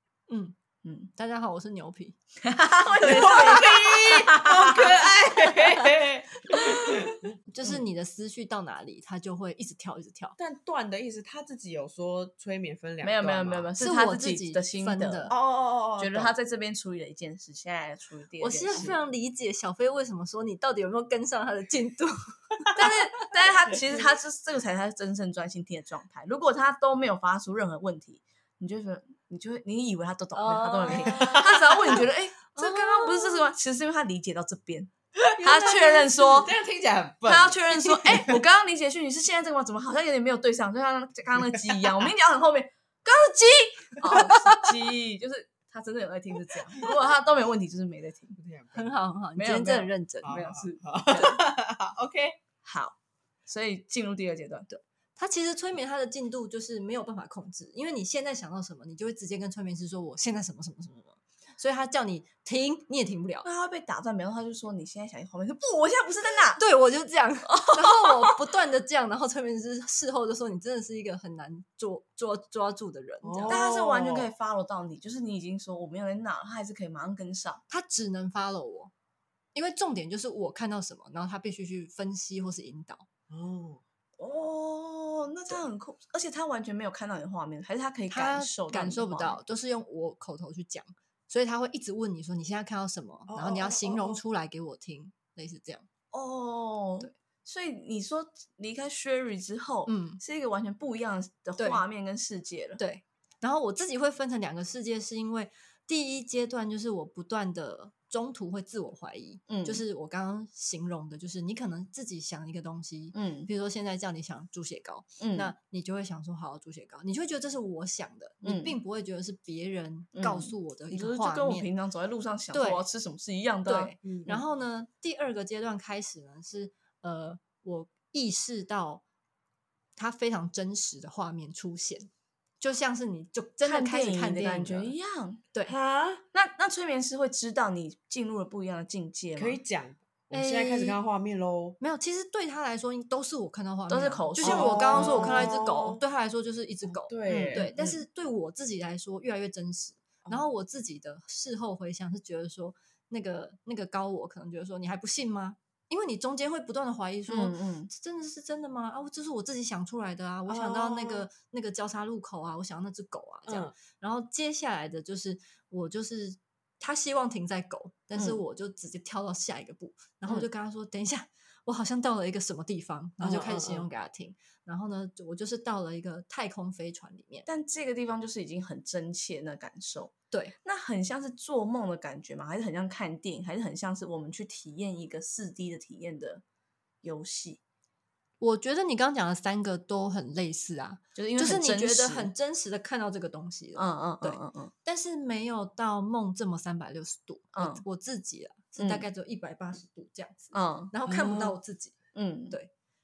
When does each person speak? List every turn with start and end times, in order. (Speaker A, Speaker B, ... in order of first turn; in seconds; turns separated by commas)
Speaker A: 0.3-0.5, Speaker B: 0.8-1.1, Speaker A: 1.1-2.1, Speaker B: 2.4-4.9, Speaker A: 3.0-3.6, Speaker C: 3.0-7.7, Speaker A: 7.5-10.3, Speaker C: 10.4-13.7, Speaker B: 13.0-15.3, Speaker A: 13.8-15.3, Speaker C: 15.3-16.3, Speaker B: 16.0-18.9, Speaker A: 18.4-23.3, Speaker B: 22.8-36.5, Speaker A: 30.3-33.5, Speaker C: 31.1-31.7, Speaker C: 35.3-38.4, Speaker A: 35.5-35.8, Speaker B: 37.2-48.4, Speaker C: 41.7-42.1, Speaker C: 48.4-48.9, Speaker A: 48.7-50.4, Speaker B: 49.4-51.3, Speaker C: 50.2-52.4, Speaker A: 51.1-51.4, Speaker B: 52.6-54.7, Speaker A: 54.7-63.5, Speaker B: 63.4-66.6, Speaker A: 66.6-73.6, Speaker B: 68.0-68.3, Speaker C: 73.2-74.3, Speaker B: 73.5-77.6, Speaker A: 77.7-78.9, Speaker A: 79.5-83.1, Speaker C: 83.3-83.8, Speaker B: 84.2-89.4, Speaker A: 88.1-95.9, Speaker C: 93.3-94.2, Speaker B: 96.1-102.8, Speaker A: 99.8-100.2, Speaker A: 102.8-121.7, Speaker B: 109.5-109.8, Speaker B: 113.1-113.5, Speaker B: 115.2-115.5, Speaker B: 118.4-118.7, Speaker B: 120.1-124.4, Speaker A: 122.5-122.8, Speaker A: 123.7-129.0, Speaker C: 124.0-124.4, Speaker A: 129.9-132.1, Speaker A: 132.6-134.9, Speaker B: 133.6-135.4, Speaker C: 135.7-136.2, Speaker B: 136.3-139.6, Speaker C: 139.3-141.8, Speaker A: 140.3-141.0, Speaker A: 141.8-177.5, Speaker B: 143.9-145.5, Speaker C: 144.4-146.0, Speaker C: 146.9-148.0, Speaker B: 147.3-147.7, Speaker B: 157.3-157.9, Speaker C: 160.5-161.3, Speaker C: 163.5-163.7, Speaker B: 168.1-168.4, Speaker C: 173.2-173.9, Speaker B: 177.4-186.4, Speaker B: 187.0-187.6, Speaker A: 188.4-201.9, Speaker B: 191.2-192.3, Speaker B: 193.8-194.7, Speaker B: 197.5-197.8, Speaker B: 198.8-199.0, Speaker B: 200.5-200.9, Speaker C: 201.1-201.6, Speaker B: 202.1-202.6